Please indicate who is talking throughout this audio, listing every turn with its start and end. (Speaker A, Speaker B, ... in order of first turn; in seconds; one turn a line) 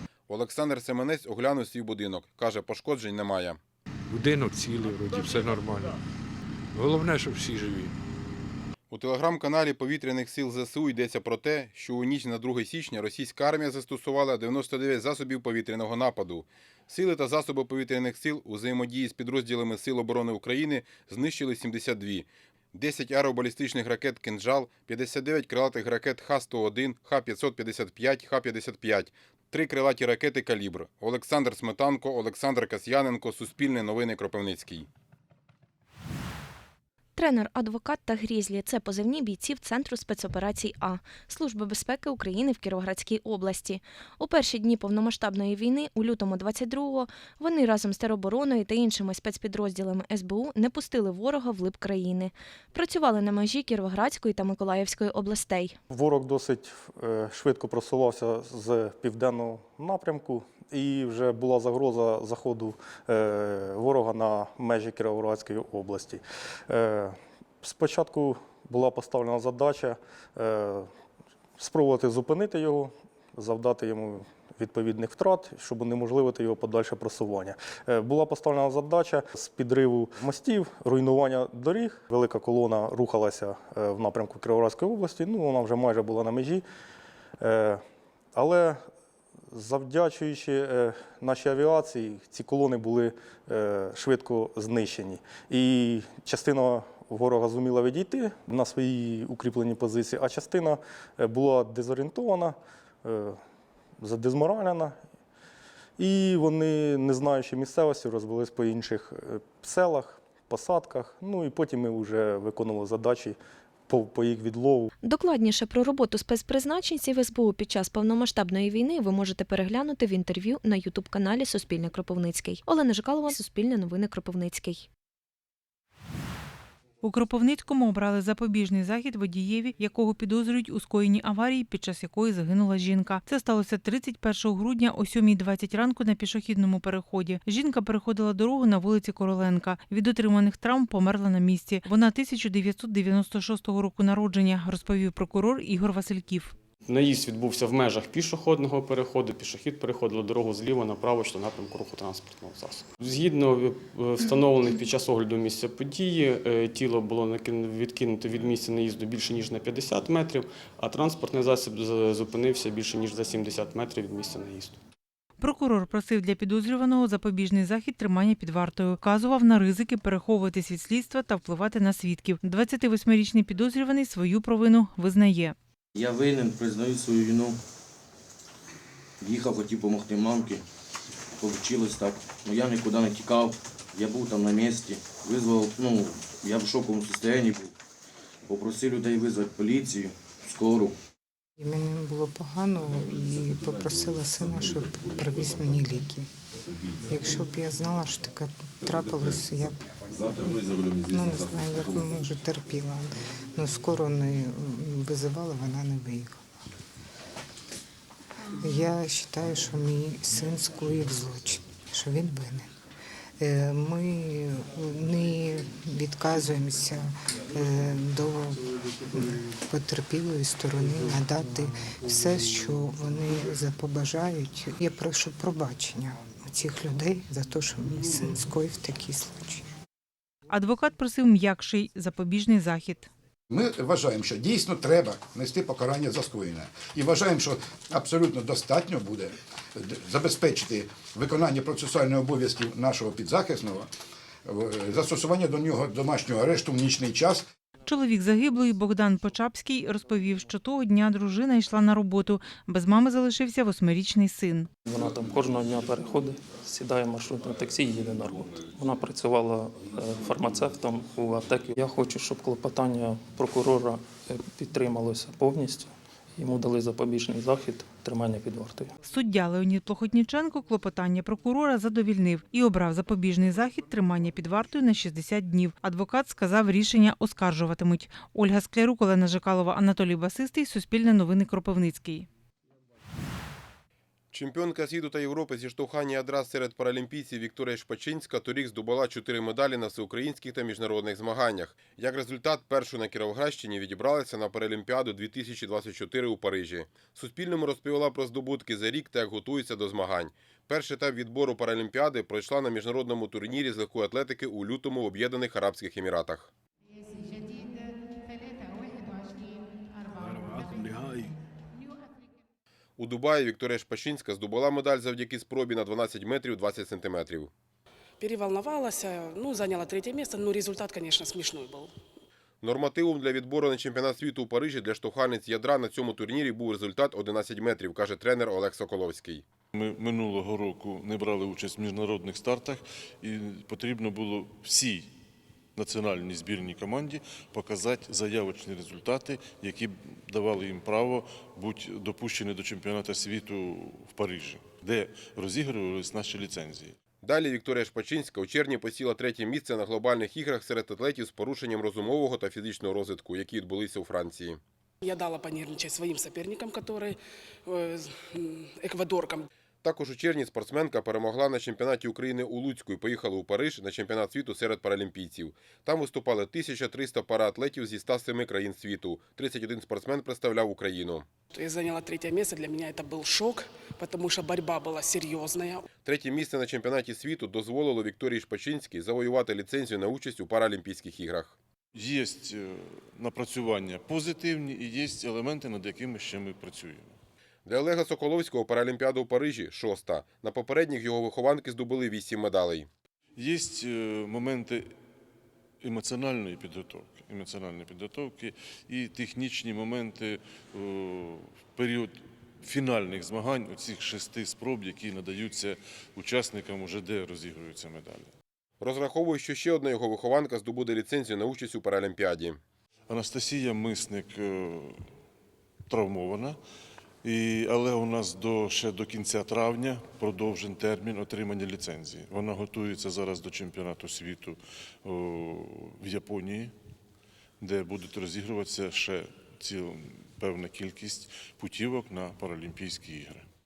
Speaker A: 0.3-3.6
Speaker B: 4.1-6.0
Speaker B: 6.7-7.9
Speaker A: 8.9-34.9
Speaker C: 37.1-55.8
Speaker D: 55.9-70.9
Speaker D: 71.6-86.6
Speaker D: 87.4-87.8
Speaker D: 88.3-88.8
Speaker D: 89.5-103.4
Speaker D: 104.0-105.0
Speaker D: 106.0-113.4
Speaker D: 113.9-114.9
Speaker C: 115.0-124.9
Speaker E: 127.0-146.5
Speaker F: 146.8-164.8
Speaker E: 165.4-175.6
Speaker G: 175.9-177.6
Speaker G: 179.2-180.6
Speaker G: 181.4-187.7
Speaker G: 188.4-190.9
Speaker H: 191.6-196.3
Speaker H: 197.0-206.4
Speaker H: 208.6-212.7
Speaker H: 213.4-229.7
Speaker E: 230.5-233.1
Speaker I: 233.5-243.9
Speaker I: 244.4-247.4
Speaker E: 247.8-254.7
Speaker J: 254.8-268.9
Speaker E: 269.0-282.3
Speaker A: 284.3-306.5
Speaker A: 313.0-317.5
Speaker K: 318.2-321.9
Speaker A: 322.6-329.4
Speaker L: 329.7-335.1
Speaker L: 335.8-346.9
Speaker A: 347.2-354.6
Speaker K: 355.1-357.1
Speaker K: 357.7-359.4
Speaker A: 359.8-371.2
Speaker K: 371.5-375.8
Speaker A: 376.0-381.6
Speaker L: 381.9-387.2
Speaker A: 387.6-392.9
Speaker L: 393.3-394.9
Speaker L: 395.8-408.3
Speaker A: 408.8-412.6
Speaker L: 413.1-415.1
Speaker L: 415.9-416.6
Speaker L: 417.2-426.7
Speaker L: 427.6-433.5